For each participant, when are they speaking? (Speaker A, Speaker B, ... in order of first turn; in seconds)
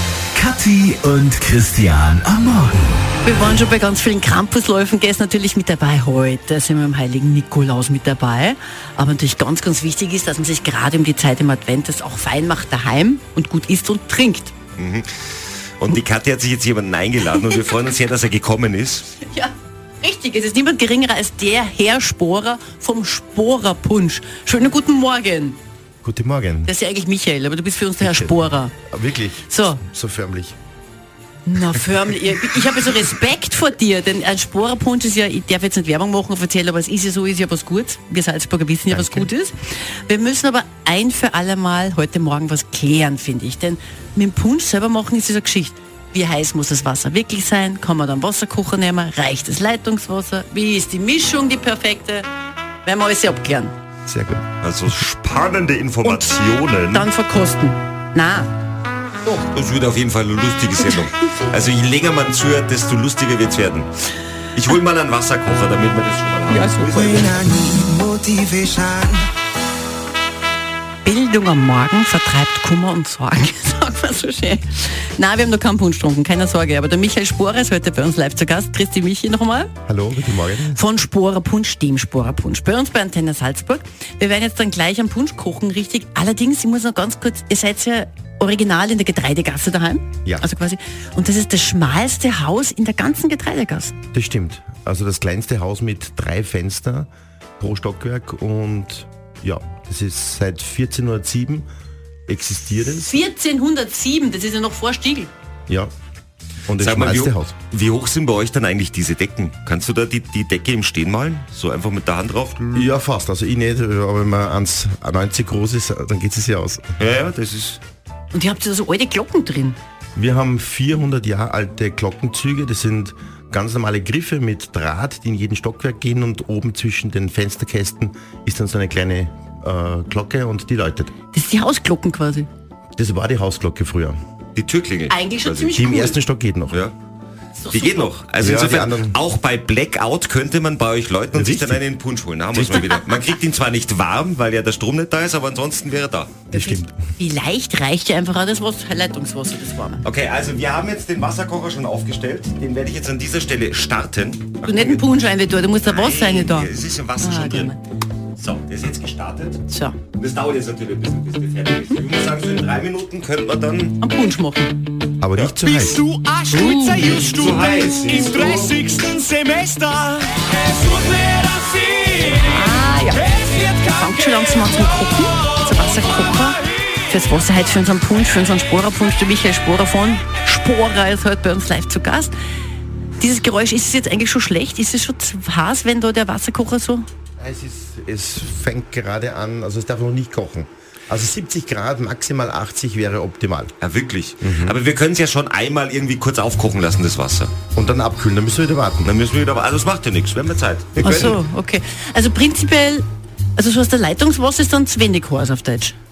Speaker A: 0.4-2.8
Speaker B: 3.2-14.5, 19.2-25.6, 26.6-28.7, 29.5-29.8, 31.5-39.5, 40.1-52.3, 52.8-53.7, 56.0-56.4, 56.9-58.5, 60.9-61.5, 66.5-67.4, 71.0-79.7, 80.7-94.0, 102.8-105.3, 118.3-119.8, 131.3-132.5, 135.1-136.2, 137.6-138.1, 146.5-150.0, 154.7-157.8, 159.7-160.0, 164.0-164.8, 166.5-167.2, 172.3-182.3, 183.2-187.1, 201.0-205.9
Speaker C: 14.8-19.1, 54.6-57.1, 59.3-63.9, 64.5-67.6, 106.8-112.9, 117.0-117.8, 134.6-135.8, 137.7-146.4, 150.0-155.1, 155.8-157.7, 158.4-159.6, 160.1-164.0, 167.1-169.0, 193.8-197.5, 199.0-201.4
Speaker D: 26.0-26.7, 28.0-28.4, 28.9-30.6, 38.9-39.3, 54.0-54.5, 79.8-80.8, 94.1-101.7, 102.3-103.2, 106.7-107.5, 112.7-116.9, 120.2-131.1, 133.0-134.2, 135.7-136.8, 138.4-139.2, 141.3-141.8, 142.5-142.9, 146.5-146.9, 165.2-166.0, 187.4-193.7, 194.4-194.8, 197.8-199.1, 201.0-201.4
Speaker E: 67.2-69.2
Speaker F: 165.8-167.2, 168.0-170.5, 171.0-172.1